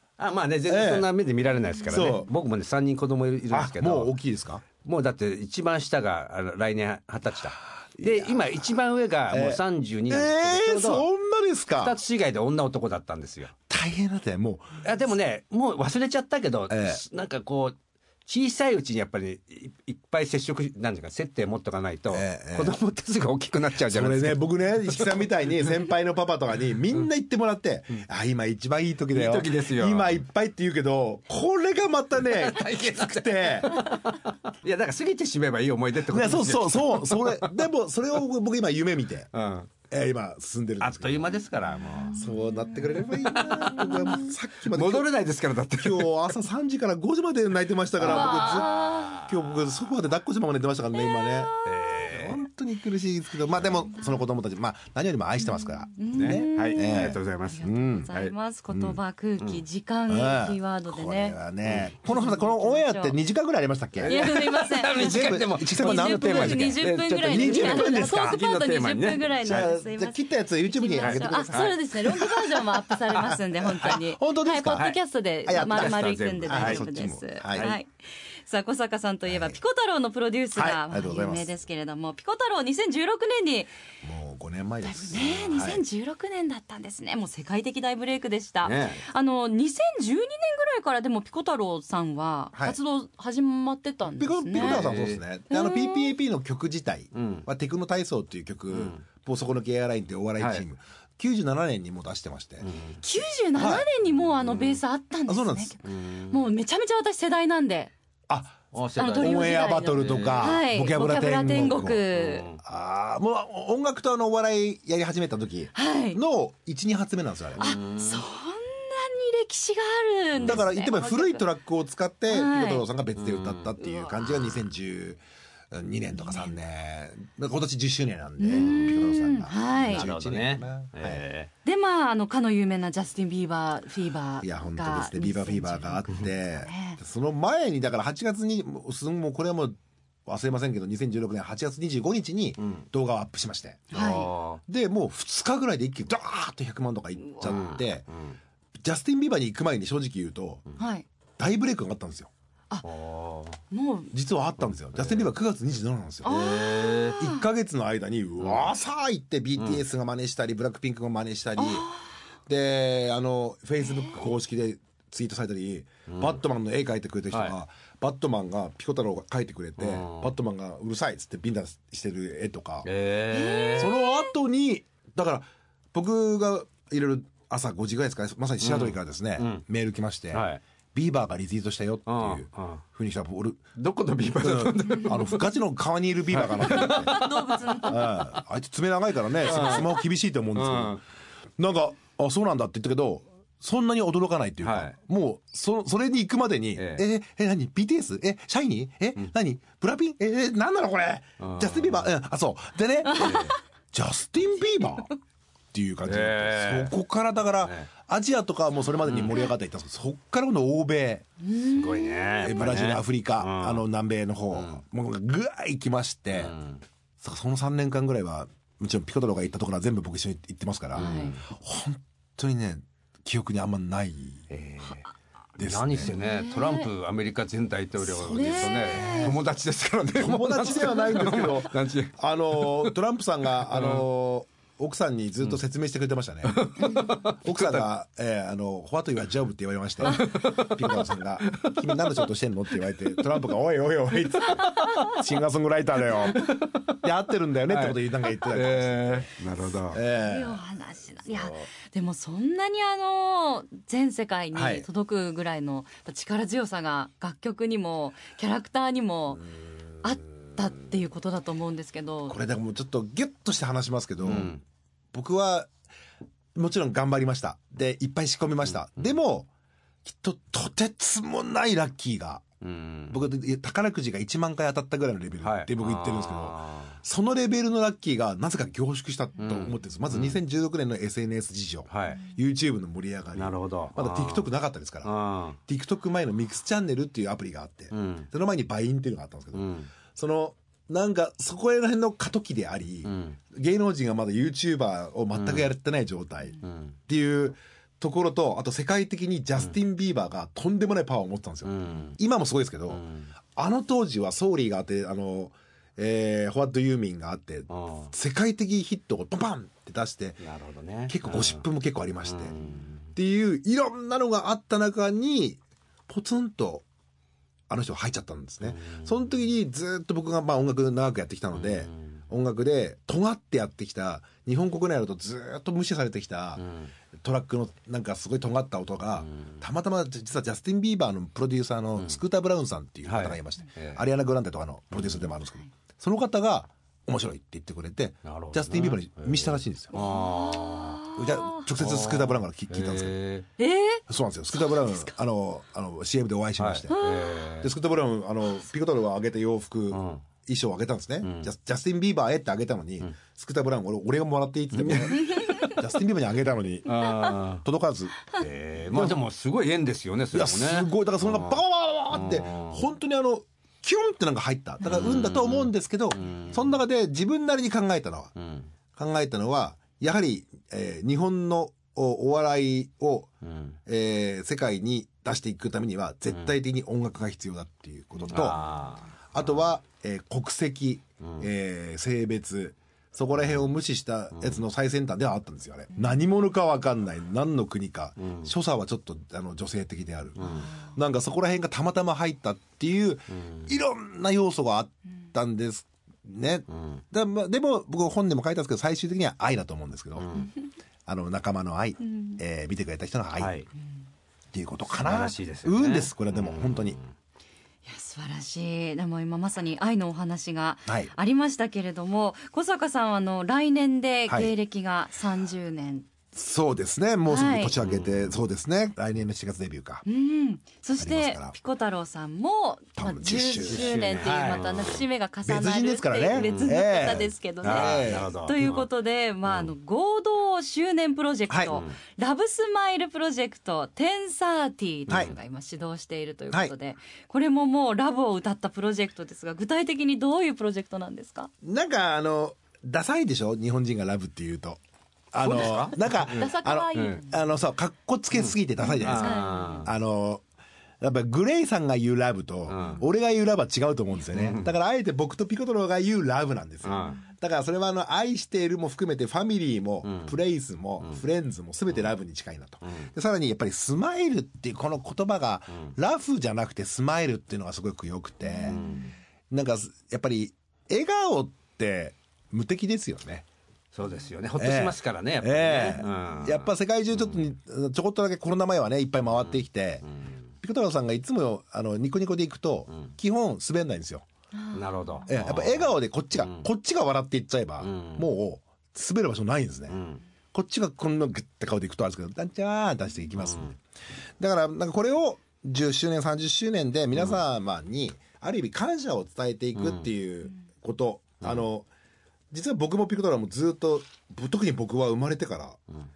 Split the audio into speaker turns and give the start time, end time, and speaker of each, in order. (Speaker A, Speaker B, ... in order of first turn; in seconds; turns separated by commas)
Speaker A: 0.2-4.1, Speaker B: 0.7-1.1, Speaker B: 1.9-2.3, Speaker B: 3.5-4.6, Speaker A: 4.8-11.1, Speaker B: 8.0-8.7, Speaker B: 9.3-12.0, Speaker A: 11.8-13.5, Speaker B: 13.7-14.8, Speaker A: 14.8-25.8, Speaker B: 16.7-17.0, Speaker B: 22.1-22.8, Speaker B: 23.9-33.9, Speaker A: 29.1-30.2, Speaker A: 32.2-37.6, Speaker B: 36.1-39.3, Speaker A: 39.3-39.7, Speaker B: 39.9-41.4, Speaker A: 40.8-42.2, Speaker B: 42.1-45.1, Speaker C: 42.1-44.2, Speaker A: 43.0-46.3, Speaker B: 45.8-58.1, Speaker A: 48.0-49.6, Speaker C: 48.0-49.2, Speaker C: 51.0-51.7, Speaker A: 51.6-52.4, Speaker C: 53.9-54.2, Speaker C: 55.6-61.4, Speaker A: 56.1-58.3, Speaker B: 58.7-59.0, Speaker B: 60.1-68.4, Speaker A: 61.6-61.9, Speaker C: 62.1-63.2, Speaker A: 64.0-69.7, Speaker C: 64.0-77.9, Speaker B: 69.4-74.9, Speaker A: 71.0-71.8, Speaker B: 75.5-77.7, Speaker A: 75.5-76.9, Speaker C: 78.4-83.7, Speaker B: 79.3-79.6, Speaker B: 80.5-81.5, Speaker B: 84.0-85.8, Speaker C: 84.8-94.9, Speaker A: 88.6-89.0, Speaker B: 94.2-102.7, Speaker A: 94.5-95.2, Speaker C: 95.5-96.1, Speaker A: 97.1-97.5, Speaker A: 98.7-99.0, Speaker A: 100.4-100.7, Speaker A: 102.6-103.0, Speaker C: 103.0-107.9, Speaker B: 103.6-103.9, Speaker A: 104.3-104.8, Speaker B: 105.3-105.8, Speaker A: 105.8-106.4, Speaker B: 108.3-112.0, Speaker A: 108.7-110.6, Speaker C: 109.0-112.5, Speaker A: 112.1-112.6, Speaker B: 112.6-117.7, Speaker C: 115.8-116.2, Speaker A: 117.6-118.2, Speaker C: 117.6-121.4, Speaker A: 120.4-120.6, Speaker B: 120.4-125.2, Speaker C: 122.3-122.9, Speaker A: 123.2-123.8, Speaker C: 124.0-124.5, Speaker B: 125.7-131.2, Speaker C: 128.4-130.1, Speaker A: 128.6-129.0, Speaker A: 129.7-131.5, Speaker C: 131.7-137.0, Speaker B: 134.4-148.1, Speaker A: 142.6-142.9, Speaker C: 143.9-144.3, Speaker A: 143.9-144.6, Speaker A: 147.4-148.4, Speaker B: 148.8-150.7, Speaker C: 150.8-151.1, Speaker B: 151.4-152.3, Speaker A: 152.8-153.6, Speaker C: 153.7-154.1, Speaker B: 154.1-156.5, Speaker A: 154.9-155.3, Speaker C: 156.2-157.4, Speaker A: 156.3-157.2, Speaker B: 157.2-161.9, Speaker A: 158.4-158.7, Speaker C: 161.6-162.1, Speaker B: 162.5-172.9, Speaker A: 166.1-166.4, Speaker A: 169.8-170.3, Speaker A: 172.8-173.9, Speaker C: 173.3-174.3, Speaker B: 173.8-183.7, Speaker A: 178.6-179.6, Speaker A: 180.3-180.6, Speaker A: 182.1-182.8, Speaker A: 183.8-185.5, Speaker B: 184.4-187.2, Speaker A: 186.3-188.2, Speaker C: 186.6-188.2, Speaker B: 187.8-191.0, Speaker A: 189.5-189.9, Speaker C: 189.5-189.8, Speaker A: 190.6-191.0, Speaker B: 191.6-205.1, Speaker A: 194.6-194.9, Speaker A: 196.8-197.0, Speaker A: 201.4-202.1, Speaker C: 203.1-203.4, Speaker A: 203.1-203.6, Speaker B: 205.7-211.2, Speaker A: 206.1-206.9, Speaker A: 207.6-207.9, Speaker A: 209.1-209.4, Speaker C: 211.4-212.5, Speaker A: 211.7-213.8, Speaker B: 212.4-216.5, Speaker A: 214.5-214.8, Speaker A: 216.3-216.8, Speaker B: 217.2-224.5, Speaker C: 220.9-221.3, Speaker A: 220.9-221.4, Speaker A: 224.5-225.0, Speaker B: 225.6-226.2, Speaker A: 225.6-232.9, Speaker C: 226.1-226.9, Speaker B: 228.0-229.4, Speaker C: 228.3-229.4, Speaker B: 230.2-249.3, Speaker A: 233.6-234.1, Speaker A: 236.5-237.9, Speaker A: 240.0-242.3, Speaker A: 244.5-245.1, Speaker A: 246.1-247.0, Speaker A: 247.7-250.0, Speaker B: 249.9-250.6, Speaker C: 250.2-259.4, Speaker B: 254.5-254.9, Speaker C: 260.0-262.4, Speaker B: 262.3-264.5, Speaker A: 264.2-264.6, Speaker B: 265.1-265.7, Speaker B: 266.6-269.5, Speaker A: 268.7-269.0, Speaker B: 270.1-272.4, Speaker A: 272.6-273.2, Speaker B: 273.1-285.1, Speaker A: 275.4-277.0, Speaker A: 279.4-280.4, Speaker A: 281.9-282.2, Speaker A: 283.4-284.5, Speaker A: 285.0-285.6, Speaker B: 285.7-303.0, Speaker A: 287.9-288.3, Speaker A: 289.5-289.9, Speaker A: 293.1-293.4, Speaker A: 295.3-295.7, Speaker A: 296.6-297.0, Speaker A: 301.6-302.2, Speaker A: 302.9-303.3, Speaker B: 303.6-310.4, Speaker A: 307.7-308.1, Speaker A: 310.4-311.6, Speaker B: 311.1-312.6, Speaker A: 312.2-313.1, Speaker B: 313.1-316.8, Speaker B: 317.7-326.6, Speaker A: 318.6-319.3, Speaker A: 321.5-322.2, Speaker A: 326.6-326.9, Speaker B: 327.2-339.9, Speaker A: 329.2-329.6, Speaker A: 333.1-334.0, Speaker A: 334.9-335.3, Speaker A: 338.2-341.0, Speaker C: 339.9-341.6, Speaker B: 341.1-343.2, Speaker A: 341.8-343.5, Speaker C: 343.6-344.0, Speaker B: 344.1-346.9, Speaker C: 344.5-345.1, Speaker A: 346.6-347.7, Speaker C: 346.9-347.5, Speaker B: 347.6-358.2, Speaker A: 349.9-350.2, Speaker A: 351.2-351.5, Speaker A: 354.7-355.8, Speaker C: 355.3-355.7, Speaker A: 356.9-357.6, Speaker A: 358.3-361.6, Speaker B: 358.9-359.2, Speaker B: 360.3-368.3, Speaker A: 362.1-362.8, Speaker A: 364.9-366.8, Speaker A: 368.4-368.7, Speaker B: 369.0-373.3, Speaker A: 373.4-373.8, Speaker B: 373.9-378.6, Speaker A: 378.3-379.4, Speaker B: 379.3-400.4, Speaker A: 381.2-381.5, Speaker A: 384.4-384.6, Speaker A: 388.2-388.5, Speaker A: 390.4-390.7, Speaker C: 390.4-390.9, Speaker A: 393.3-393.7, Speaker A: 396.7-397.0, Speaker A: 400.2-400.5, Speaker B: 401.1-403.5, Speaker C: 402.1-402.4, Speaker A: 403.4-403.7, Speaker B: 404.5-407.0, Speaker A: 405.0-407.1, Speaker C: 407.9-416.1, Speaker B: 416.3-420.1, Speaker C: 417.3-417.8, Speaker A: 417.8-418.4, Speaker C: 420.1-441.5, Speaker B: 421.0-421.6, Speaker B: 423.0-424.7, Speaker A: 423.6-425.0, Speaker B: 425.4-428.3, Speaker A: 426.3-426.7, Speaker A: 427.6-428.9, Speaker B: 431.5-431.8, Speaker A: 435.1-435.4, Speaker B: 435.1-435.3, Speaker B: 441.6-444.8, Speaker B: 445.3-450.4, Speaker A: 445.4-447.2, Speaker C: 445.5-447.4, Speaker A: 448.4-449.9, Speaker C: 448.8-449.9, Speaker B: 451.0-468.8, Speaker A: 452.7-453.0, Speaker A: 454.3-454.7, Speaker A: 456.8-457.2, Speaker C: 457.0-457.2, Speaker A: 460.0-460.3, Speaker C: 468.6-469.1, Speaker A: 468.6-469.0, Speaker B: 469.5-473.4, Speaker A: 473.9-477.4, Speaker B: 474.6-480.1, Speaker A: 479.4-480.3, Speaker B: 480.6-484.2, Speaker C: 484.5-485.3, Speaker A: 484.7-486.6, Speaker B: 485.3-490.0, Speaker A: 487.8-488.3, Speaker A: 489.9-490.2, Speaker B: 490.5-493.8, Speaker A: 493.4-493.7, Speaker B: 494.4-501.9, Speaker A: 499.8-500.1, Speaker B: 502.5-505.8